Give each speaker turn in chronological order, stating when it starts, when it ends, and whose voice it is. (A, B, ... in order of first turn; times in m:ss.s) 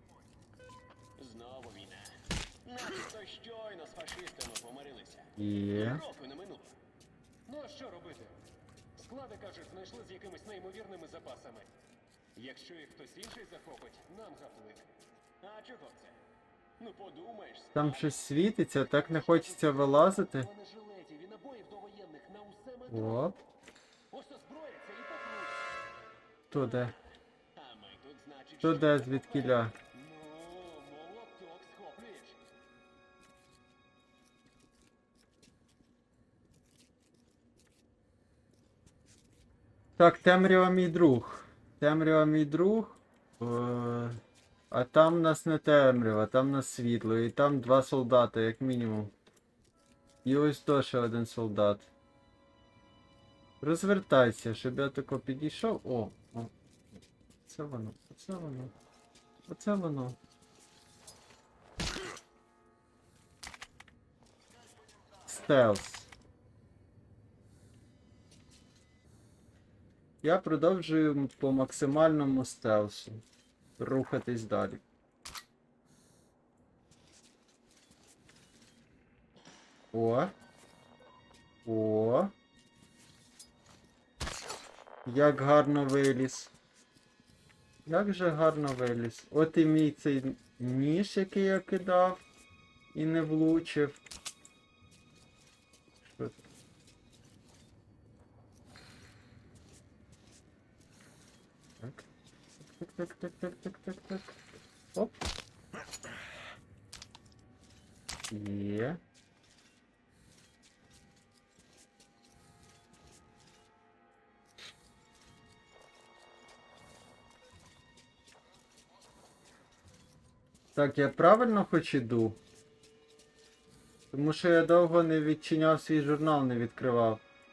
0:01.2-0:02.1 A
0:02.6-0:06.8 A
0:05.4-0:06.0 B
0:07.4-0:08.4 A
0:09.0-0:11.7 A
0:12.3-0:14.9 A
0:15.4-0:16.2 A
0:16.8-0:18.1 A
0:17.7-0:20.5 B
0:19.2-0:23.2 A
0:22.9-0:23.4 B
0:24.1-0:25.6 A
0:26.5-0:26.9 B
0:27.5-0:32.4 A
0:28.6-0:29.7 B
0:40.0-0:49.1 B
0:50.2-0:51.9 B
0:53.6-0:58.7 B
0:59.4-1:00.2 B
1:05.2-1:06.1 B
1:10.2-1:13.2 B
1:13.8-1:14.8 B
1:19.9-1:20.3 B
1:21.6-1:22.3 B
1:25.0-1:26.5 B
1:27.8-1:32.2 B
1:32.9-1:34.0 B
1:36.0-1:36.4 B
1:41.8-1:42.0 B
1:42.6-1:44.4 B
1:48.3-1:49.0 B
2:00.7-2:02.4 B
2:04.1-2:07.2 B